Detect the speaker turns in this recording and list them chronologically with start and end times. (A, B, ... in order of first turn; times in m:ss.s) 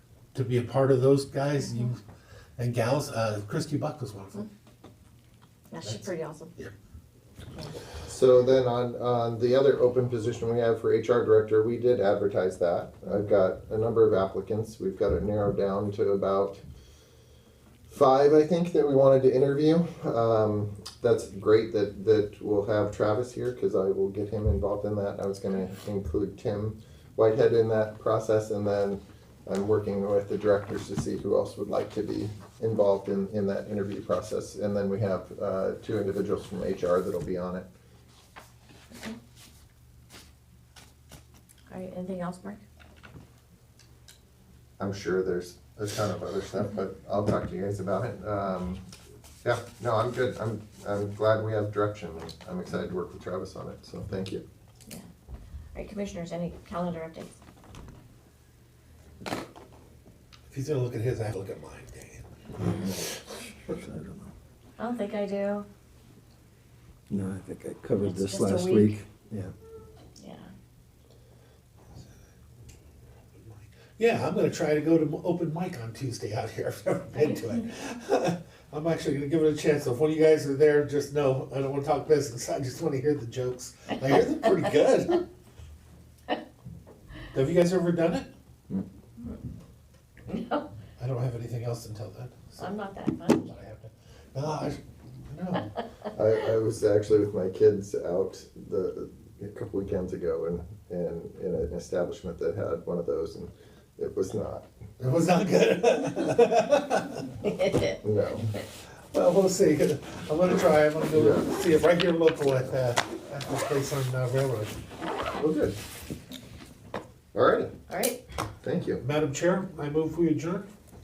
0:00.3-0:02.0 A
0:02.6-0:04.5 A
0:05.7-0:06.5 B
0:05.8-0:06.7 A
0:08.0-0:16.6 C
0:17.9-0:37.7 C
0:41.7-0:42.6 B
0:44.8-0:48.9 C
0:49.4-0:54.4 C
0:55.8-0:57.3 B
1:00.5-1:02.8 A
1:02.7-1:03.0 D
1:03.7-1:04.3 D
1:04.8-1:05.7 B
1:07.1-1:09.5 D
1:08.0-1:09.0 B
1:10.2-1:10.5 B
1:13.4-1:25.2 A
1:17.2-1:17.6 B
1:27.3-1:28.3 A
1:30.3-1:30.7 B
1:31.0-1:32.7 A
1:32.6-1:33.6 B
1:33.4-1:35.7 A
1:36.2-1:44.7 C
1:45.0-1:47.3 A
1:47.4-1:48.0 B
1:48.0-1:48.5 C
1:49.1-1:54.8 A
1:51.1-1:51.5 C
1:55.4-1:55.8 C
1:57.3-1:57.7 C
1:57.9-1:58.2 B
1:58.6-1:59.0 C
1:59.0-2:00.7 A